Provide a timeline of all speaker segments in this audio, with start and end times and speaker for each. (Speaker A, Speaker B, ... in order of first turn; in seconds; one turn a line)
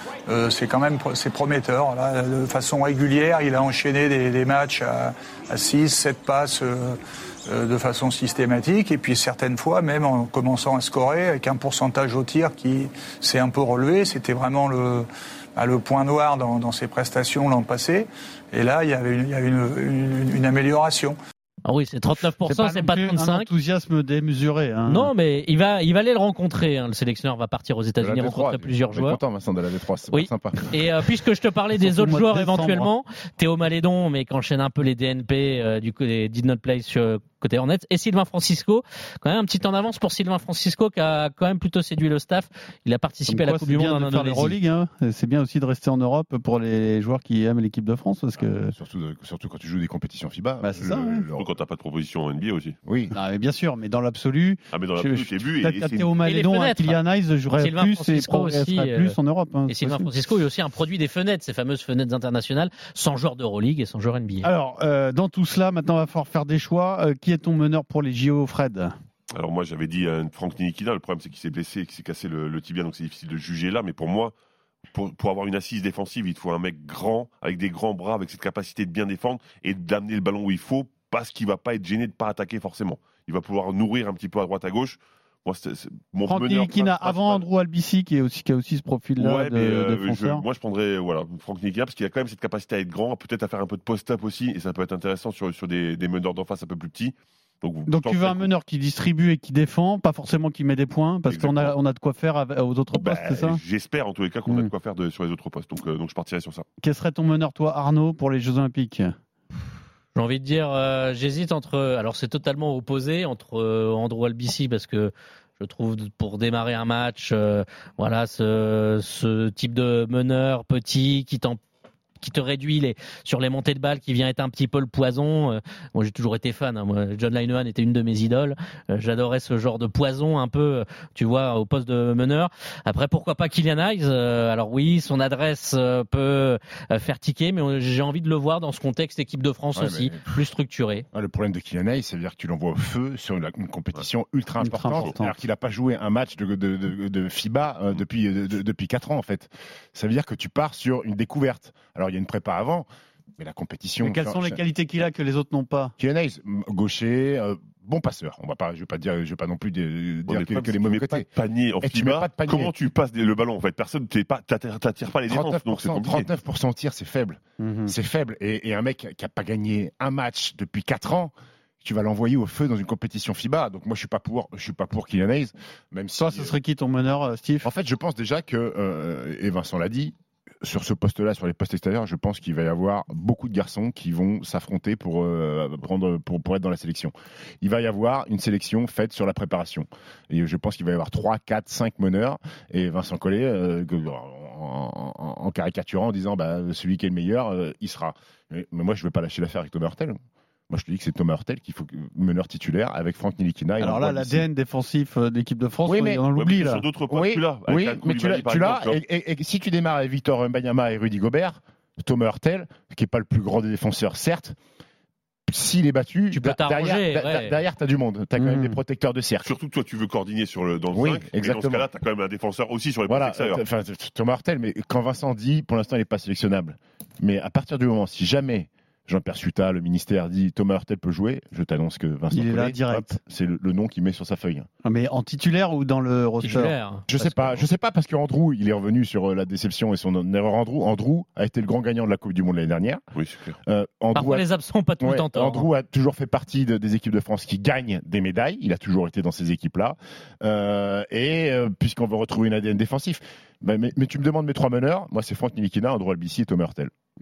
Speaker A: 0.3-21.2
Speaker B: 21.7-23.5
Speaker C: 22.2-25.1
Speaker B: 24.9-29.2
Speaker D: 28.0-30.9
Speaker B: 30.1-44.6
Speaker C: 31.8-32.9
Speaker C: 43.3-48.8
Speaker D: 48.4-51.5
Speaker C: 50.6-51.3
Speaker E: 51.4-52.8
Speaker D: 52.9-53.1
Speaker C: 53.1-60.1
Speaker E: 54.7-56.2
Speaker B: 56.2-57.0
Speaker B: 57.6-59.2
Speaker B: 59.7-64.5
Speaker C: 64.4-69.0
Speaker E: 69.3-74.3
Speaker E: 74.9-87.4
Speaker C: 86.3-90.4
Speaker E: 89.2-98.5
Speaker C: 97.9-103.6
Speaker E: 101.3-101.7
Speaker E: 103.0-106.7
Speaker C: 104.5-104.7
Speaker C: 106.8-109.1
Speaker B: 110.2-121.6
Speaker B: 122.2-141.1
Speaker D: 139.8-140.4
Speaker D: 141.1-154.6
Speaker C: 144.6-145.3
Speaker C: 154.0-155.9
Speaker D: 156.0-161.3
Speaker E: 160.3-166.3
Speaker D: 161.8-162.7
Speaker D: 165.3-176.6
Speaker C: 167.6-167.9
Speaker C: 176.2-177.7
Speaker D: 177.6-200.2
Speaker D: 200.7-204.5
Speaker C: 203.8-206.8
Speaker D: 205.9-206.2
Speaker E: 206.4-209.0
Speaker D: 207.1-214.6
Speaker D: 215.5-219.5
Speaker B: 216.3-217.5
Speaker C: 218.4-218.8
Speaker E: 219.4-223.6
Speaker D: 220.9-221.9
Speaker D: 223.1-234.7
Speaker C: 232.3-233.2
Speaker C: 234.8-236.8
Speaker B: 236.4-237.6
Speaker D: 237.1-243.0
Speaker E: 243.2-243.6
Speaker D: 243.7-244.4
Speaker B: 244.1-245.7
Speaker D: 245.0-256.9